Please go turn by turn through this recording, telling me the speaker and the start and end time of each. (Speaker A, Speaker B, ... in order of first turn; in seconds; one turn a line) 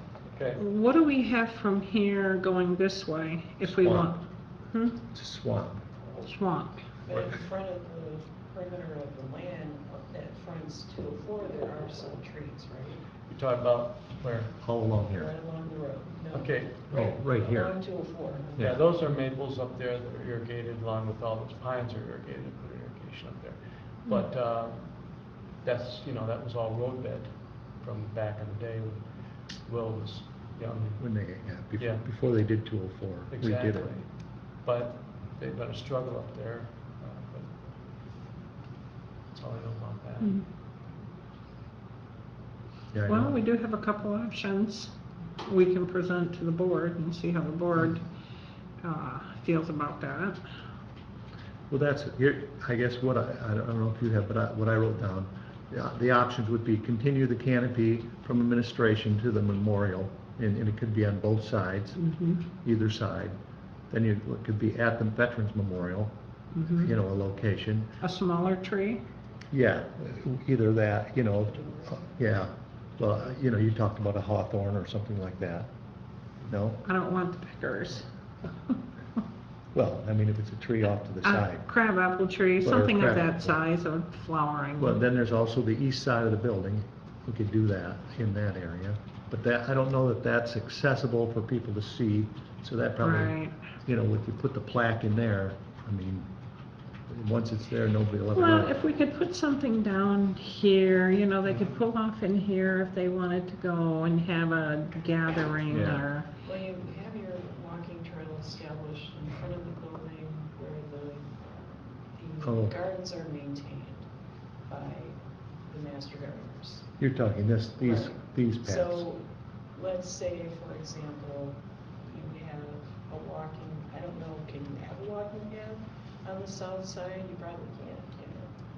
Speaker A: 0.3-0.6
Speaker B: 0.6-5.0
Speaker C: 3.6-4.2
Speaker C: 5.1-5.8
Speaker B: 6.2-6.8
Speaker D: 7.0-13.0
Speaker A: 13.3-14.5
Speaker C: 14.5-15.3
Speaker D: 15.1-18.7
Speaker A: 16.3-17.1
Speaker C: 16.9-18.8
Speaker A: 18.6-24.9
Speaker A: 25.6-29.1
Speaker A: 29.6-31.0
Speaker C: 31.0-33.9
Speaker A: 31.8-32.0
Speaker A: 33.3-34.0
Speaker A: 34.6-37.5
Speaker A: 39.3-40.3
Speaker C: 42.9-43.4
Speaker B: 43.1-44.9
Speaker B: 45.4-48.0
Speaker B: 48.8-50.4
Speaker C: 51.7-63.4
Speaker B: 62.0-62.4
Speaker C: 63.9-66.1
Speaker B: 66.5-66.9
Speaker C: 66.8-67.9
Speaker B: 68.0-69.0
Speaker C: 69.5-75.7
Speaker C: 76.4-76.8
Speaker B: 76.8-78.1
Speaker C: 79.7-81.7
Speaker B: 81.2-85.0
Speaker C: 82.6-83.6
Speaker C: 84.8-96.3
Speaker B: 93.0-93.5
Speaker C: 97.1-98.8
Speaker B: 98.3-106.3
Speaker A: 101.5-101.7
Speaker C: 105.7-106.1
Speaker D: 106.4-114.0
Speaker C: 112.4-112.8
Speaker D: 114.7-116.8
Speaker C: 117.0-119.0
Speaker D: 117.8-119.2
Speaker D: 119.7-128.5